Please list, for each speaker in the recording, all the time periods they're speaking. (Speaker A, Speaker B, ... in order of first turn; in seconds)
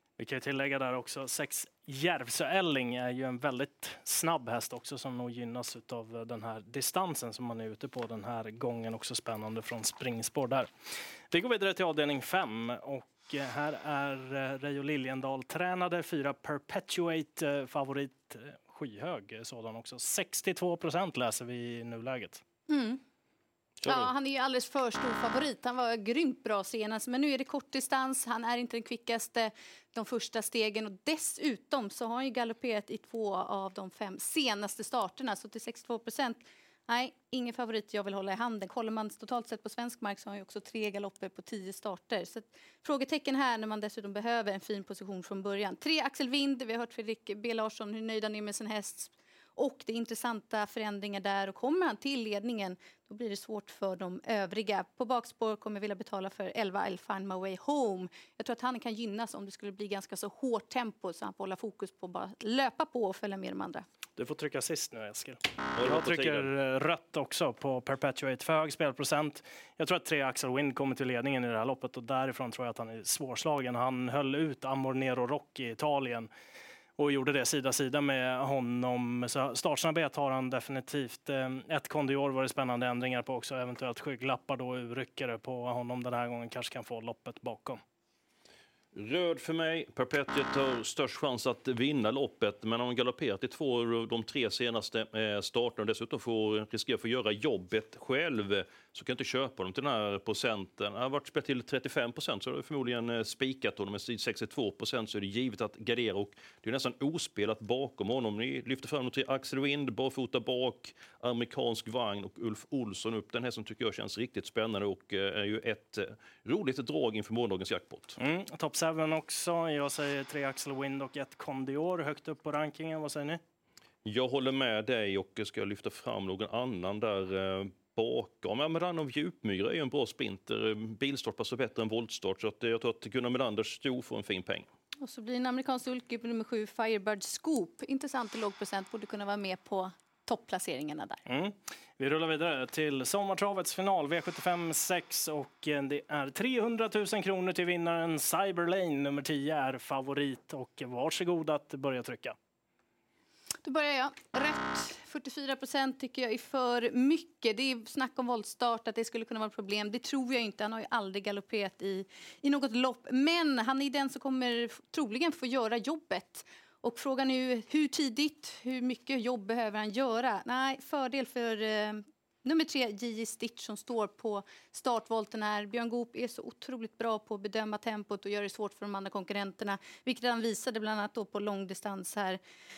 Speaker A: 0.2-10.7, 11.3-22.4, 64.2-76.3, 77.0-87.8, 118.2-123.4, 141.2-152.3
Speaker B: 22.7-23.0, 23.8-63.8, 135.0-141.2, 153.6-182.4
Speaker C: 23.8-24.1, 65.7-66.5, 88.9-118.2, 124.0-134.7